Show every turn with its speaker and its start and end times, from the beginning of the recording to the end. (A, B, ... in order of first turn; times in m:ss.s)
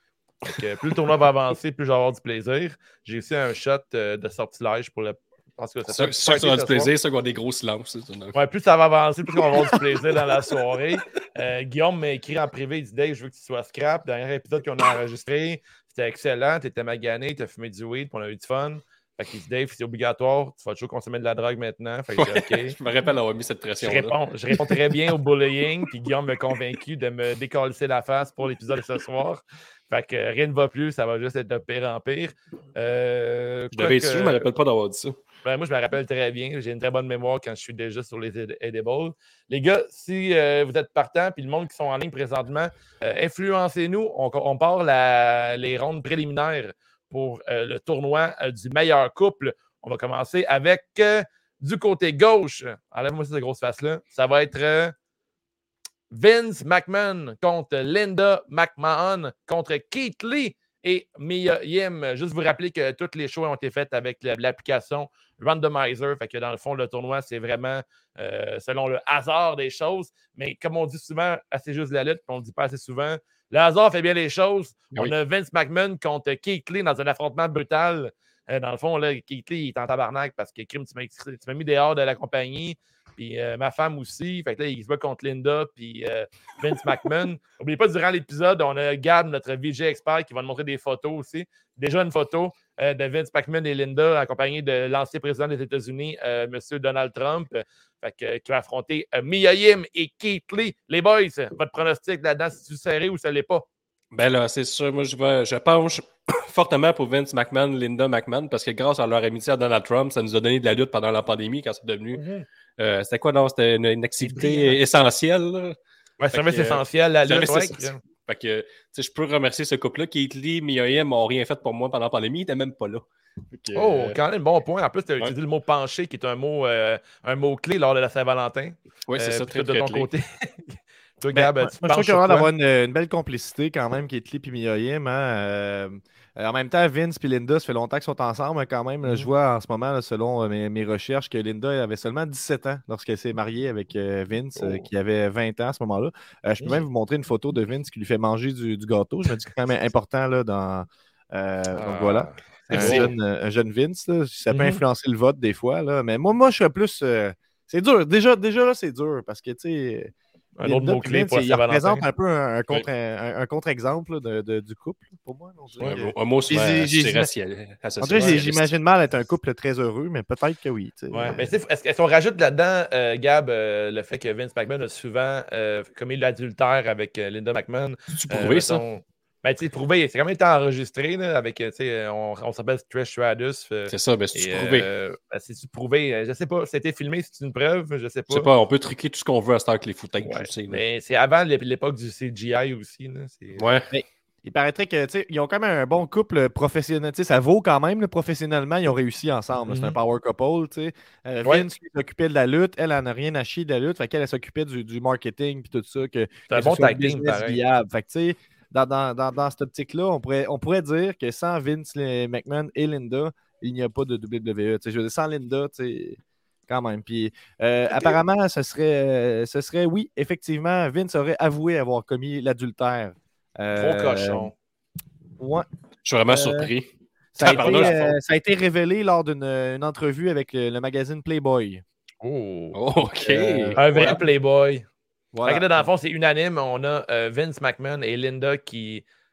0:00.4-0:06.9 A
0:05.9-0:08.4 B
0:08.3-0:22.8 A
0:22.2-0:25.0 B
0:23.8-0:34.5 A
0:33.7-0:35.2 B
0:35.4-0:54.9 A
0:56.1-1:43.6 A
1:44.1-1:52.2 B
1:52.2-1:52.4 A
1:52.8-1:55.8 B
1:54.2-1:54.8 A
1:56.2-1:58.0 A
1:56.3-2:04.2 B
2:03.7-2:12.5 A
2:09.1-2:10.1 B
2:11.3-2:40.1 C
2:19.0-2:19.3 A
2:24.6-2:24.8 A
2:31.7-2:33.1 A
2:32.7-2:33.1 B
2:34.5-2:34.8 A
2:40.6-2:42.0 A
2:40.6-2:47.3 C
2:45.8-2:48.7 B
2:48.0-2:51.4 C
2:51.1-3:08.5 A
2:58.1-2:58.8 B
3:03.9-3:04.9 B
3:08.3-3:10.8 B
3:10.2-3:13.6 A
3:13.6-3:13.9 B
3:13.9-3:44.5 C
3:19.7-3:20.0 A
3:26.5-3:27.6 A
3:37.9-3:38.2 A
3:43.7-3:44.5 A
3:45.4-3:45.7 C
3:46.0-3:46.9 B
3:46.3-3:46.7 C
3:47.3-3:51.8 C
3:47.4-3:48.1 B
3:47.4-3:48.0 A
3:52.2-3:52.8 A
3:52.7-3:54.2 B
3:53.2-3:54.1 C
3:53.8-3:54.9 A
3:55.3-3:55.9 C
3:55.4-3:59.0 A